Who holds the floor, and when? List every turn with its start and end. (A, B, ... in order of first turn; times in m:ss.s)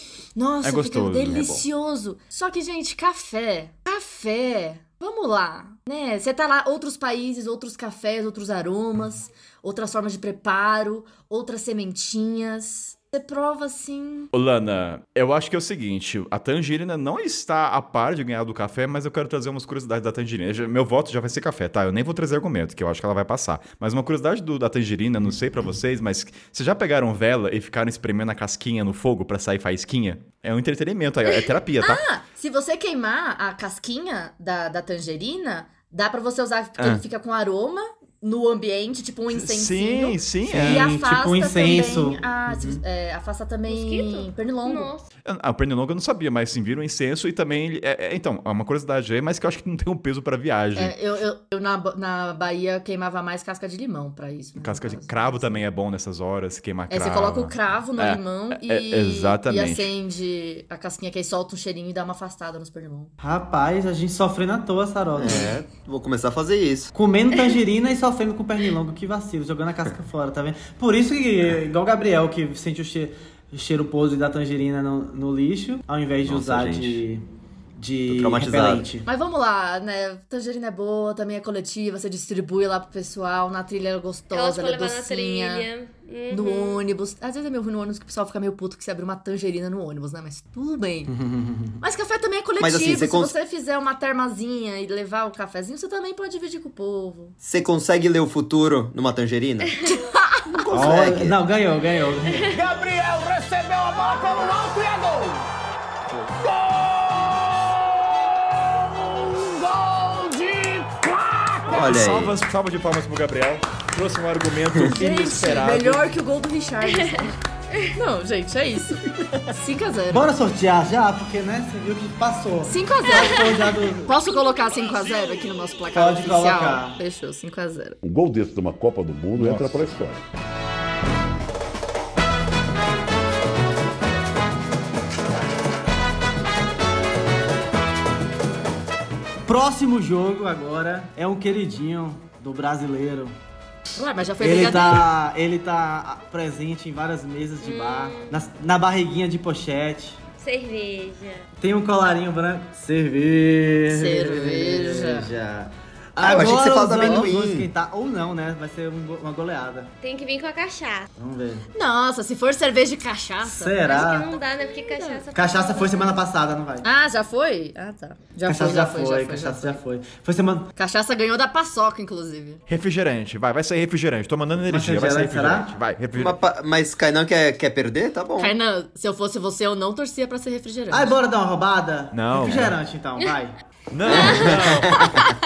0:00.4-0:14.3 A
0:00.6-0:01.4 B
0:01.3-0:01.6 C
0:14.3-0:32.0 B
0:31.8-0:44.9 A
0:39.3-0:41.0 B
0:40.5-0:42.8 D
0:43.7-0:45.1 E
0:45.3-0:51.0 B
0:50.8-0:55.6 A
0:54.6-0:59.9 B
0:56.9-1:03.1 A
1:03.2-1:05.6 D
1:05.2-1:06.9 C
1:06.9-1:17.2 D
1:16.2-1:17.0 C
1:17.8-1:19.1 D
1:18.1-1:18.9 C
1:19.0-1:25.7 A
1:24.3-1:26.8 E
1:26.3-1:31.1 A
1:31.1-1:31.8 D
1:31.8-1:37.4 A
1:32.6-1:33.3 C
1:37.4-1:39.8 C
1:40.7-1:41.4 C
1:40.7-1:42.5 D
1:42.5-1:45.5 F
1:46.2-1:51.9 F
1:51.7-1:52.4 C
1:51.7-1:56.0 B
1:54.9-1:57.4 A
1:56.8-1:57.8 E
1:57.9-2:00.3 A
2:00.1-2:04.2 D
2:02.6-2:03.5 A
2:04.1-2:08.0 A
2:05.9-2:07.0 D
2:08.0-2:10.2 G
2:19.5-2:23.4 D
2:24.0-2:25.1 A
2:24.4-2:30.2 D
2:27.6-2:28.4 E
2:30.4-2:31.5 E
2:31.6-2:39.9 D
2:33.9-2:35.3 A
2:36.2-2:37.7 C
2:36.2-2:37.3 A
2:40.0-2:41.1 E
2:41.2-2:41.7 D
2:41.7-2:43.8 A
2:43.4-2:44.3 D
2:43.8-2:46.2 E
2:44.9-2:45.2 A
2:45.4-2:46.9 D
2:46.8-2:49.8 A
2:48.5-2:50.7 D
2:50.8-2:52.6 A
2:52.7-2:56.4 B
2:54.7-2:55.7 D
2:56.2-2:58.6 C
2:58.4-3:01.2 A
3:00.9-3:03.6 D
3:02.1-3:02.8 B
3:03.9-3:05.2 B
3:04.1-3:04.7 E
3:04.1-3:04.5 D
3:04.6-3:05.2 C